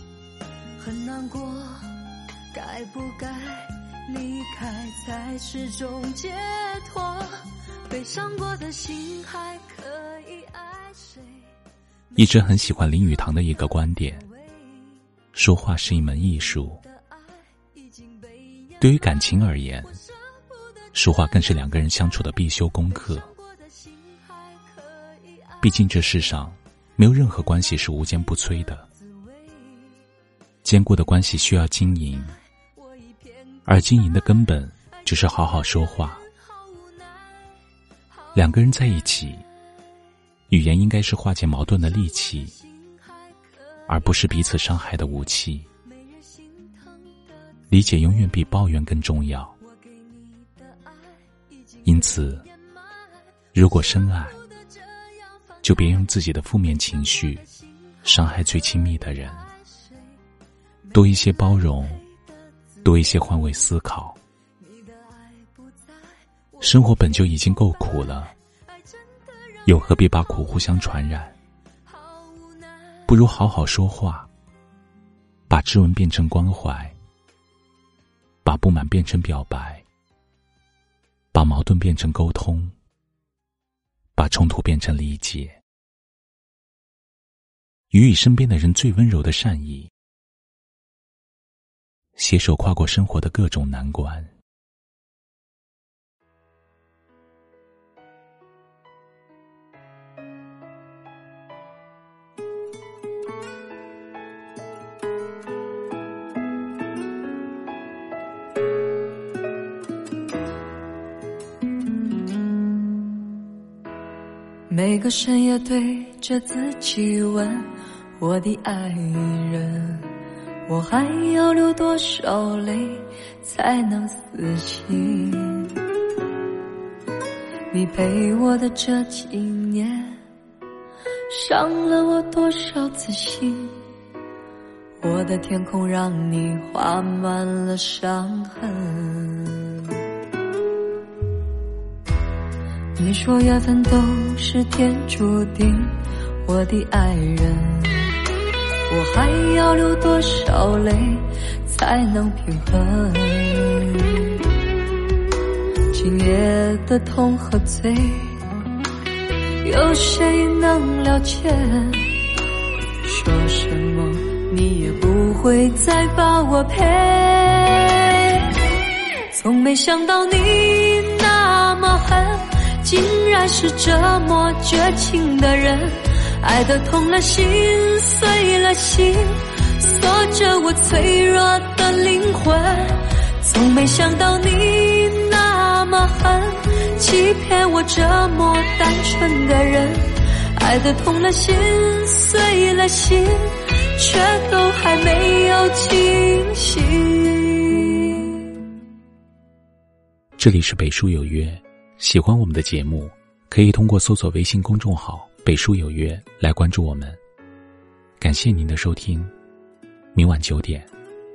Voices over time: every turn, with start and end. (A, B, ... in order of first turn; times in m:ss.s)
0:00.8-0:11.5 A
0:12.2-0:14.3 B
0:15.3-0:16.8 B
0:18.0-0:18.8 A
0:18.8-0:20.0 B
0:20.9-0:23.3 B
0:23.4-0:25.6 A
0:25.6-0:28.9 B
0:29.5-0:29.9 A
0:30.6-0:32.4 B
0:33.1-0:33.6 A
0:33.7-0:36.3 B
0:38.4-0:39.4 B
0:40.5-0:42.6 B
0:42.9-0:43.8 A
0:43.9-0:45.7 B
0:46.3-0:47.2 A
0:47.7-0:49.6 B
0:49.8-0:51.1 A
0:51.8-0:52.5 B
0:53.5-0:54.4 B
0:54.7-0:55.2 A
0:55.6-0:57.5 B
0:58.0-0:59.5 B
1:00.9-1:02.0 B
1:02.8-1:04.2 B
1:04.7-1:05.6 A
1:06.6-1:08.3 B
1:09.6-1:11.4 B
1:12.0-1:13.0 A
1:13.1-1:14.3 B
1:15.5-1:17.0 B
1:18.4-1:19.8 B
1:21.3-1:22.8 B
1:24.2-1:25.6 B
1:27.9-1:29.9 B
1:32.2-1:34.3 B
1:54.7-2:05.9 A
2:07.7-2:10.2 A
2:11.3-2:13.9 A
2:15.0-2:20.0 A
2:23.0-2:28.3 A
2:28.9-2:34.5 A
2:35.9-2:38.6 A
2:39.6-2:42.3 A
2:43.0-2:48.7 A
2:49.3-3:18.6 A
3:20.4-3:27.2 B
3:28.2-3:29.3 B
3:30.1-3:30.9 B